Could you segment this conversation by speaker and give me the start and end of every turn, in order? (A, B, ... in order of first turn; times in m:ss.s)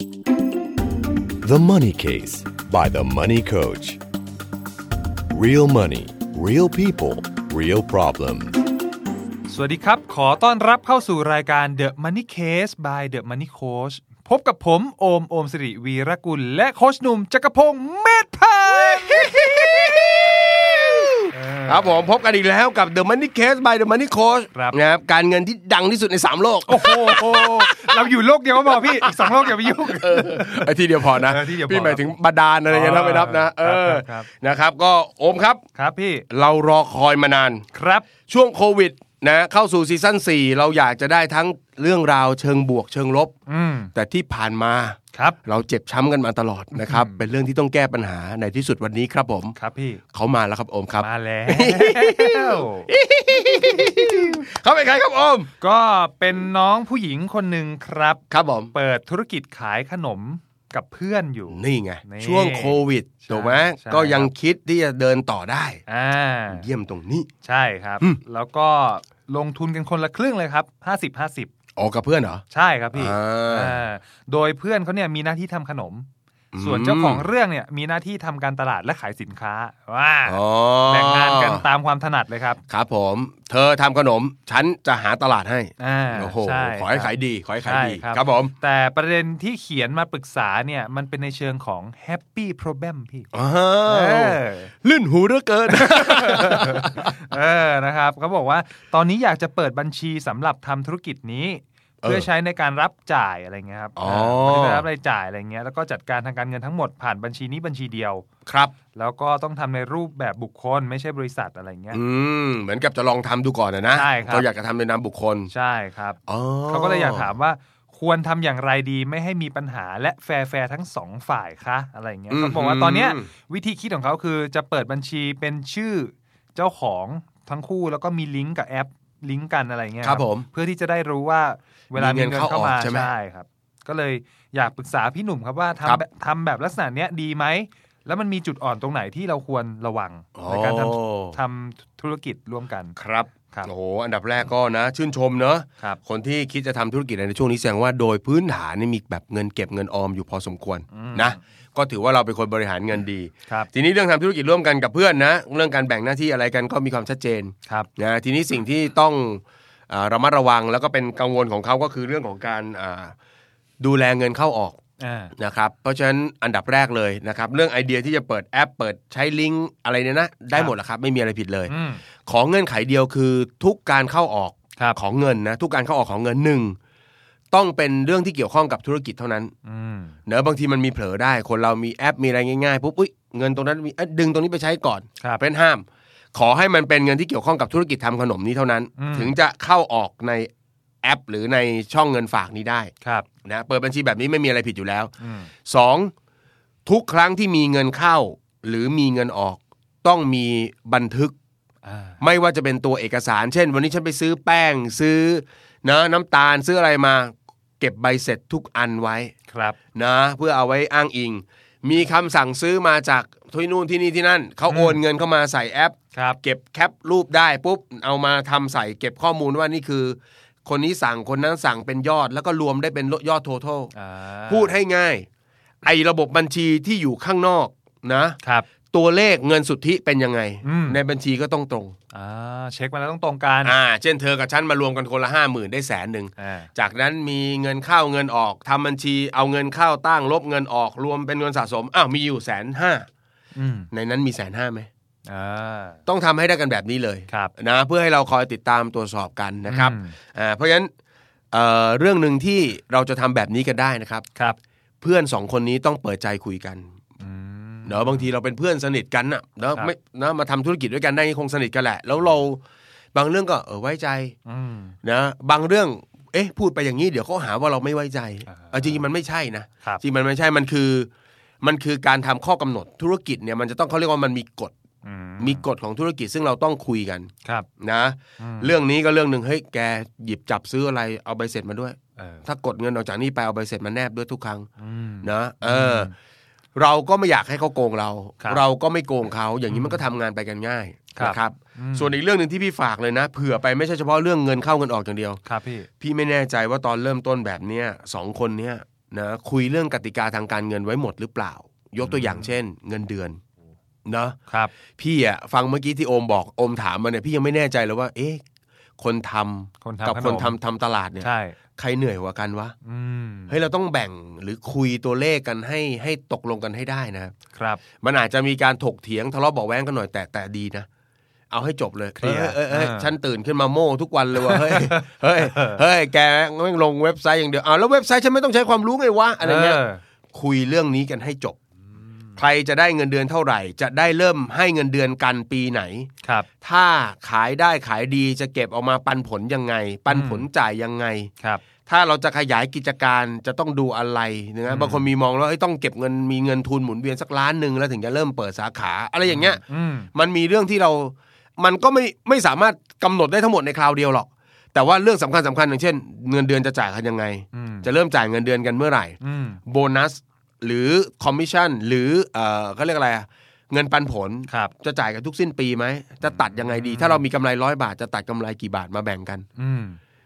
0:01.4-0:04.0 A
0:05.3-0:08.6 A
0:09.5-0:19.9 B
0:18.8-0:28.1 C
0:21.3-0:22.1 B
0:26.7-0:32.2 B
0:28.7-0:35.6 C
0:32.7-0:34.3 B
0:35.8-0:36.2 B
0:36.3-0:37.6 C
0:37.7-0:38.1 B
0:38.3-0:43.3 C
0:43.5-0:43.9 B
0:44.0-0:49.6 C
0:45.1-0:45.4 B
0:46.8-0:47.2 B
0:49.6-0:50.0 B
0:50.1-0:55.5 C
0:51.0-0:52.9 B
0:53.6-0:54.3 B
0:55.6-1:04.3 B
0:58.3-0:58.7 C
1:01.5-1:05.8 C
1:05.9-1:06.7 B
1:06.5-1:07.3 C
1:07.4-1:11.5 B
1:11.8-1:12.4 C
1:12.5-1:16.1 B
1:12.9-1:13.8 C
1:16.5-1:17.3 C
1:16.6-1:22.6 B
1:20.3-1:21.7 C
1:22.7-1:28.5 C
1:25.8-1:33.3 B
1:33.3-1:37.2 C
1:33.9-1:34.7 B
1:35.8-1:48.2 B
1:44.0-1:44.9 C
1:48.5-1:48.8 C
1:48.9-1:52.0 B
1:51.9-1:55.5 C
1:53.9-1:54.5 B
1:55.5-2:23.0 B
1:56.3-1:57.3 C
2:02.3-2:03.3 C
2:10.0-2:10.5 C
2:11.9-2:13.1 C
2:20.4-2:21.4 C
2:23.0-2:43.1 C
2:30.9-2:31.4 B
2:43.8-2:44.8 C
2:45.0-2:45.3 B
2:45.4-2:51.7 C
2:51.7-2:52.0 B
2:52.3-2:56.8 C
2:57.5-2:59.5 C
2:59.6-3:00.2 B
3:00.3-3:10.5 C
3:09.0-3:09.3 B
3:11.0-3:12.9 C
3:13.0-3:13.3 B
3:13.4-3:15.1 C
3:15.2-3:15.5 B
3:15.7-3:16.1 C
3:16.9-3:21.3 C
3:21.8-3:22.2 B
3:22.2-3:29.3 C
3:29.5-3:29.8 B
3:30.0-3:43.9 C
3:34.7-3:35.0 B
3:36.1-3:36.4 B
3:43.9-3:44.7 B
3:44.5-3:45.3 C
3:45.8-3:48.4 C
3:48.4-3:48.7 B
3:48.9-3:52.0 C
3:50.6-3:51.0 B
3:52.1-3:53.8 B
3:53.6-4:03.1 C
3:56.4-3:56.7 B
4:03.6-4:03.9 B
4:03.9-4:04.9 C
4:05.3-4:06.0 B
4:06.1-4:10.9 C
4:07.3-4:07.5 B
4:09.7-4:10.2 B
4:11.5-4:14.2 C
4:15.0-4:16.9 C
4:17.2-4:18.3 B
4:17.9-4:22.6 C
4:23.1-4:24.4 C
4:24.5-4:25.0 B
4:25.0-4:31.1 C
4:28.5-4:29.0 B
4:31.6-4:34.7 C
4:35.0-4:35.7 B
4:35.4-4:44.7 C
4:38.4-4:38.7 B
4:42.2-4:42.4 B
4:44.8-4:46.1 B
4:45.2-4:46.1 C
4:46.8-4:55.4 C
4:49.7-4:50.0 B
4:51.1-4:52.2 B
4:55.4-4:55.9 B
4:56.0-5:03.4 C
5:02.0-5:02.5 B
5:04.1-5:04.4 C
5:04.5-5:04.7 B
5:05.0-5:08.4 C
5:09.0-5:12.7 C
5:09.8-5:10.6 B
5:11.2-5:11.6 B
5:12.8-5:13.6 B
5:13.5-5:17.3 C
5:17.5-5:17.8 B
5:18.0-5:20.9 C
5:21.5-5:31.6 C
5:22.2-5:23.1 B
5:24.4-5:25.8 B
5:29.4-5:30.0 B
5:32.0-5:32.3 B
5:32.4-5:36.1 C
5:36.2-5:36.5 B
5:36.6-5:41.3 C
5:40.1-5:40.5 B
5:41.9-5:49.6 C
5:44.7-5:45.1 B
5:49.3-5:50.1 B
5:50.1-6:09.5 C
5:57.5-5:57.9 B
5:59.2-5:59.6 B
6:04.5-6:04.7 B
6:06.2-6:07.2 B
6:09.6-6:10.0 B